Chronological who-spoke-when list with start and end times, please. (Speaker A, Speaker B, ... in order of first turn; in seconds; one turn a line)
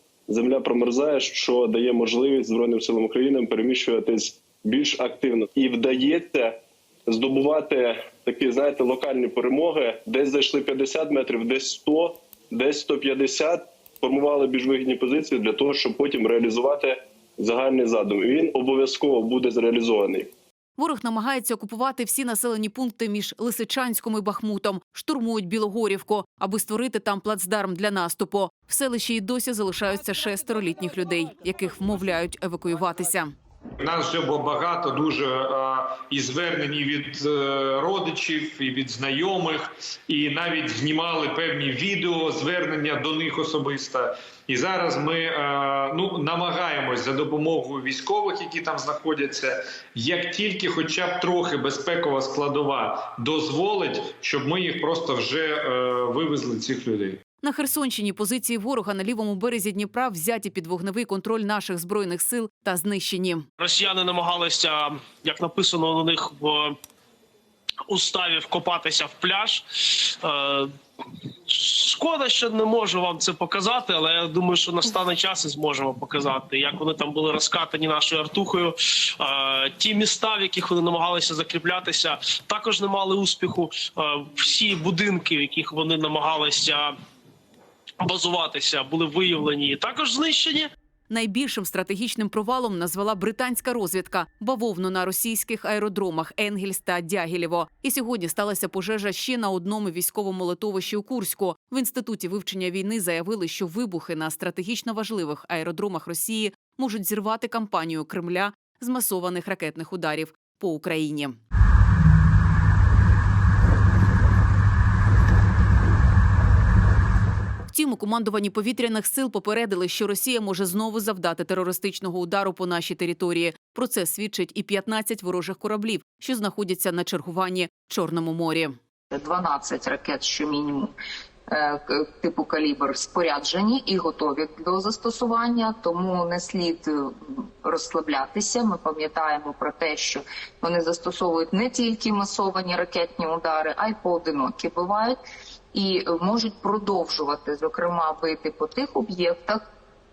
Speaker A: 0.3-20.3
Speaker B: 20.8-33.3
Speaker C: 33.8-57.2
Speaker B: 57.4-63.5
Speaker D: 63.6-66.8
Speaker D: 67.9-70.7
Speaker D: 71.5-86.9
Speaker D: 88.0-90.7
Speaker B: 91.1-111.4
Speaker B: 117.7-128.8
Speaker E: 129.1-130.9
Speaker E: 131.5-145.2
Speaker E: 145.7-149.6